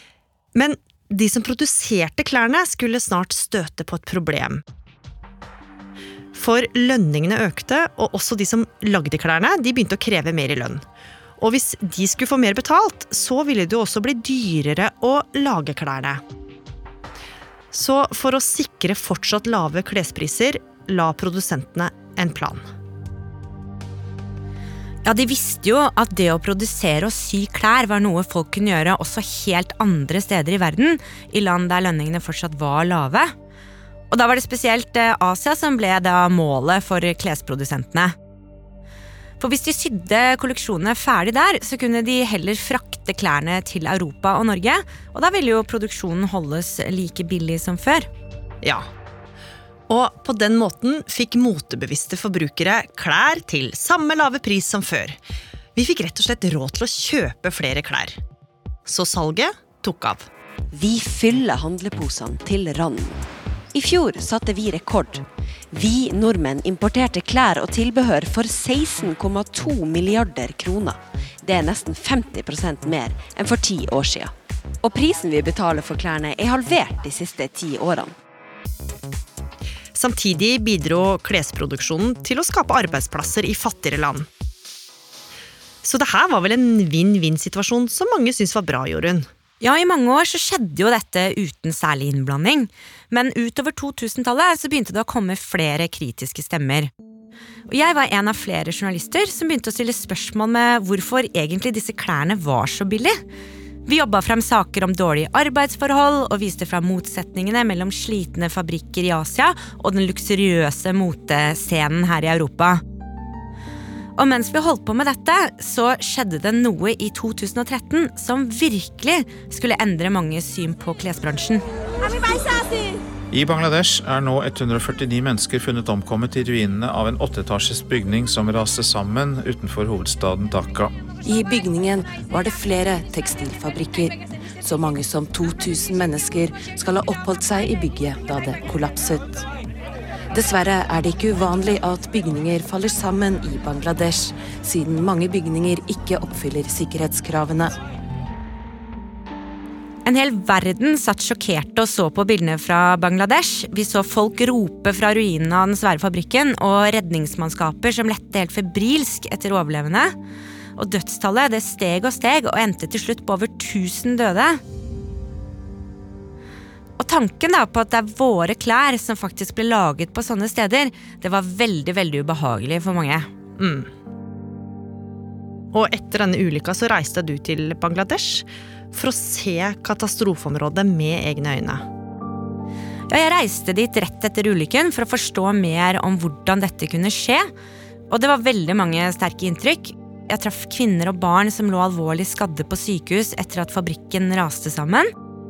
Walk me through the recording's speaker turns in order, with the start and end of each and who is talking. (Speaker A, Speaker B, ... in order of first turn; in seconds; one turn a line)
Speaker A: 0.5-4.6
Speaker A: 6.3-10.8
Speaker A: 11.4-16.2
Speaker A: 17.7-22.6
Speaker B: 25.0-33.3
Speaker B: 34.1-38.1
Speaker B: 39.4-48.1
Speaker A: 48.6-48.9
Speaker A: 49.9-55.2
Speaker A: 55.8-58.2
Speaker A: 58.9-60.3
Speaker C: 60.7-78.1
Speaker A: 79.9-84.3
Speaker A: 85.8-89.3
Speaker B: 89.6-96.9
Speaker B: 97.7-103.2
Speaker B: 103.9-112.8
Speaker B: 114.2-121.6
Speaker D: 123.3-130.9
Speaker E: 131.2-139.4
Speaker E: 140.3-147.7
Speaker B: 150.1-160.1
Speaker B: 160.8-164.6
Speaker B: 167.0-173.3
Speaker A: 173.6-173.9
Speaker A: 175.7-181.8
Speaker B: 183.1-187.5
Speaker B: 188.1-195.1